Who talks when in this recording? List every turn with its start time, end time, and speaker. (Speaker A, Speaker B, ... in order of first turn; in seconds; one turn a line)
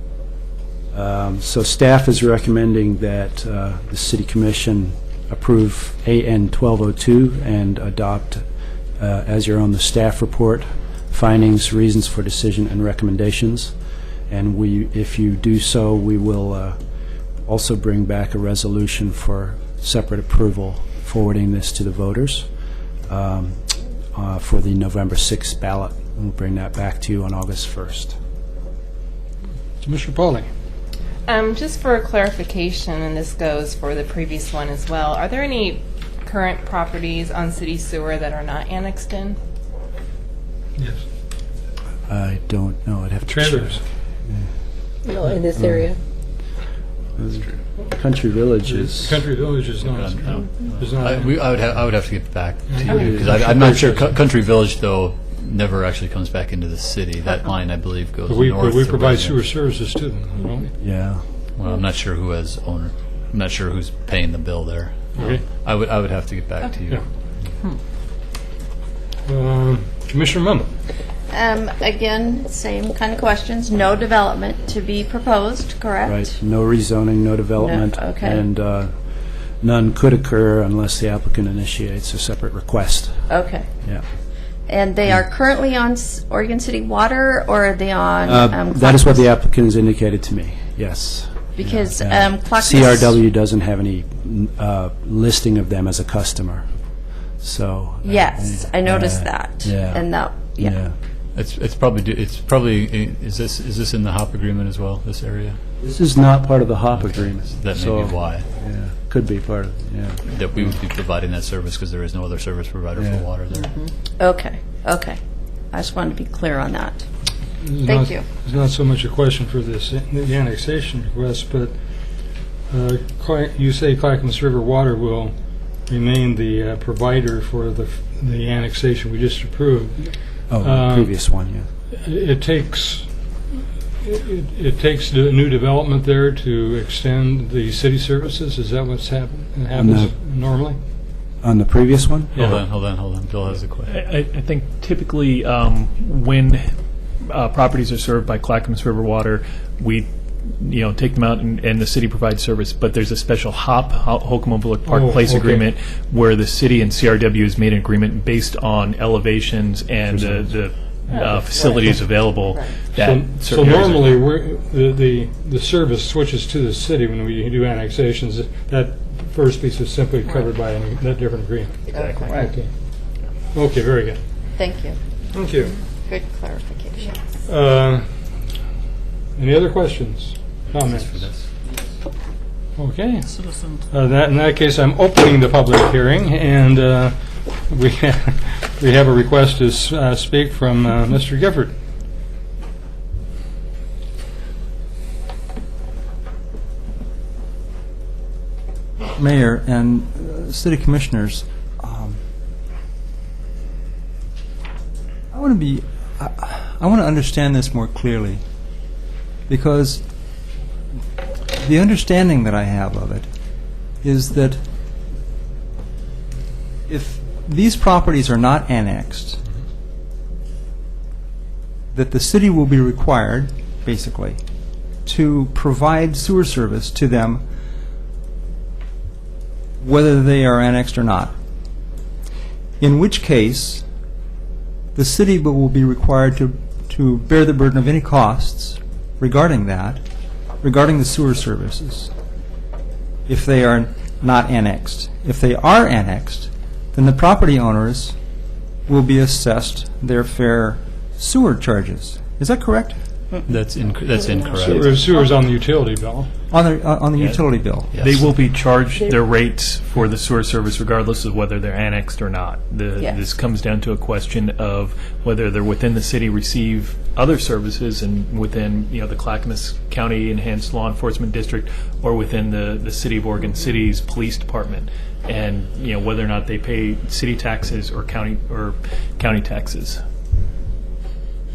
Speaker A: 0.9-8.4
Speaker A: 9.0-13.7
Speaker A: 14.3-16.8
Speaker A: 17.4-22.5
Speaker A: 23.1-28.1
Speaker B: 29.8-30.4
Speaker C: 31.2-39.4
Speaker A: 42.1-44.5
Speaker B: 43.3-43.8
Speaker A: 47.1-49.2
Speaker B: 48.7-51.3
Speaker D: 49.8-59.4
Speaker B: 52.7-53.8
Speaker A: 52.9-53.4
Speaker B: 58.3-60.7
Speaker A: 60.8-61.2
Speaker D: 61.6-67.0
Speaker B: 65.1-65.4
Speaker B: 69.3-70.7
Speaker E: 71.3-76.3
Speaker A: 76.0-78.9
Speaker E: 77.6-78.4
Speaker A: 79.6-83.2
Speaker E: 83.3-83.7
Speaker E: 84.7-89.3
Speaker A: 88.3-96.7
Speaker E: 91.6-93.1
Speaker A: 97.4-100.0
Speaker E: 98.0-100.7
Speaker A: 100.6-100.9
Speaker D: 101.3-105.6
Speaker A: 105.8-110.7
Speaker D: 106.9-108.5
Speaker D: 110.2-113.7
Speaker A: 113.0-113.2
Speaker E: 114.2-115.2
Speaker E: 115.7-117.0
Speaker B: 117.6-121.8
Speaker E: 117.8-118.2
Speaker B: 122.7-125.3
Speaker B: 125.9-131.1
Speaker A: 130.5-131.7
Speaker B: 131.9-140.8
Speaker A: 139.7-140.1
Speaker A: 141.4-142.3
Speaker D: 142.3-143.9
Speaker F: 143.9-146.7
Speaker F: 147.2-164.2
Speaker B: 154.8-155.7
Speaker A: 160.1-160.5
Speaker B: 162.9-172.7
Speaker F: 171.9-172.5
Speaker B: 173.5-174.2
Speaker E: 174.5-175.0
Speaker B: 175.3-175.8
Speaker E: 175.9-177.2
Speaker B: 177.4-178.1
Speaker B: 179.3-181.2
Speaker D: 180.7-181.5
Speaker B: 182.8-191.7
Speaker G: 199.2-202.2
Speaker G: 205.3-208.4
Speaker G: 209.5-210.0
Speaker G: 211.6-213.3
Speaker G: 214.0-214.6
Speaker G: 216.9-219.4
Speaker G: 221.9-224.4
Speaker G: 225.1-227.4
Speaker G: 229.8-231.3
Speaker G: 232.8-233.8
Speaker G: 234.9-240.0
Speaker G: 240.6-242.1
Speaker G: 243.3-248.1
Speaker G: 248.9-253.0
Speaker D: 253.5-254.9
Speaker E: 254.3-254.9
Speaker B: 254.6-256.3
Speaker G: 256.5-258.0
Speaker F: 257.1-257.4
Speaker D: 257.9-258.2
Speaker F: 258.0-280.0